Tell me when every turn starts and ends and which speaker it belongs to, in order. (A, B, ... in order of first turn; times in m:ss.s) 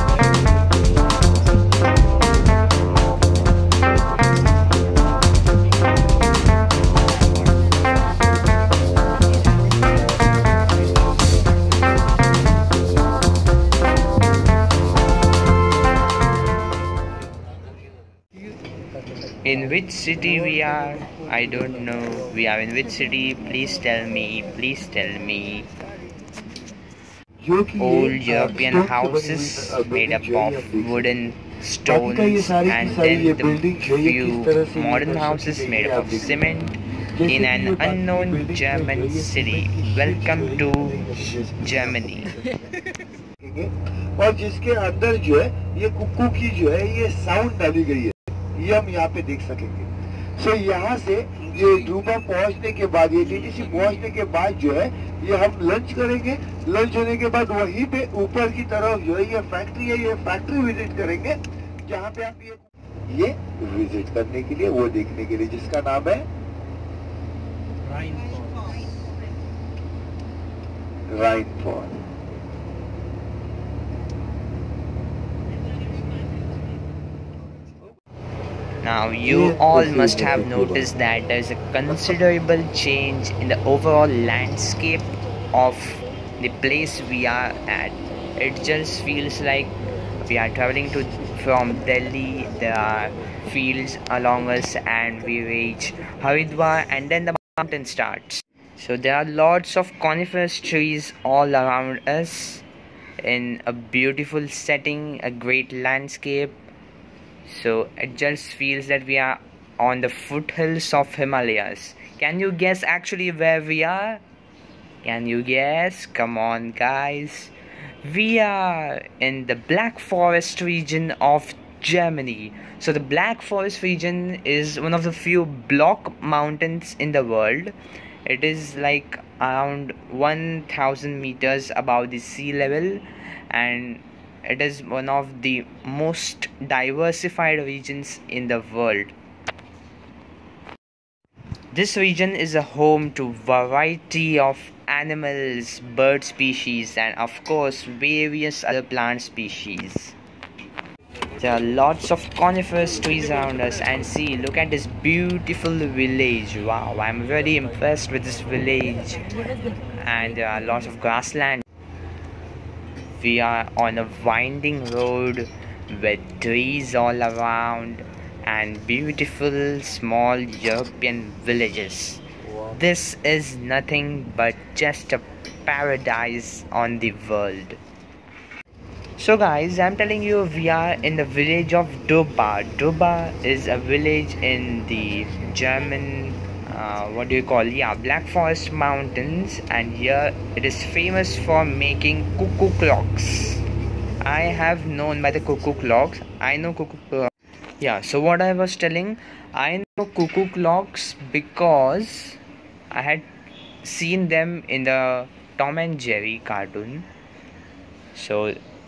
0:19.4-0:25.7 A
0:27.4-0:31.0 B
0:27.8-0:41.0 A
0:31.8-0:36.4 B
0:37.2-0:42.2 B
0:41.6-0:42.4 A
0:43.4-1:06.3 B
1:11.1-1:12.0 B
1:18.8-1:42.6 A
1:19.2-1:20.9 B
1:43.2-1:46.6 A
1:47.4-1:54.2 A
1:55.0-2:19.1 A
2:21.7-2:30.1 A
2:31.4-2:39.3 A
2:40.0-2:41.6 A
2:43.2-2:57.8 A
2:59.2-3:13.6 A
3:14.2-3:22.4 A
3:22.9-3:23.3 A
3:23.8-3:27.1 A
3:28.1-3:28.6 A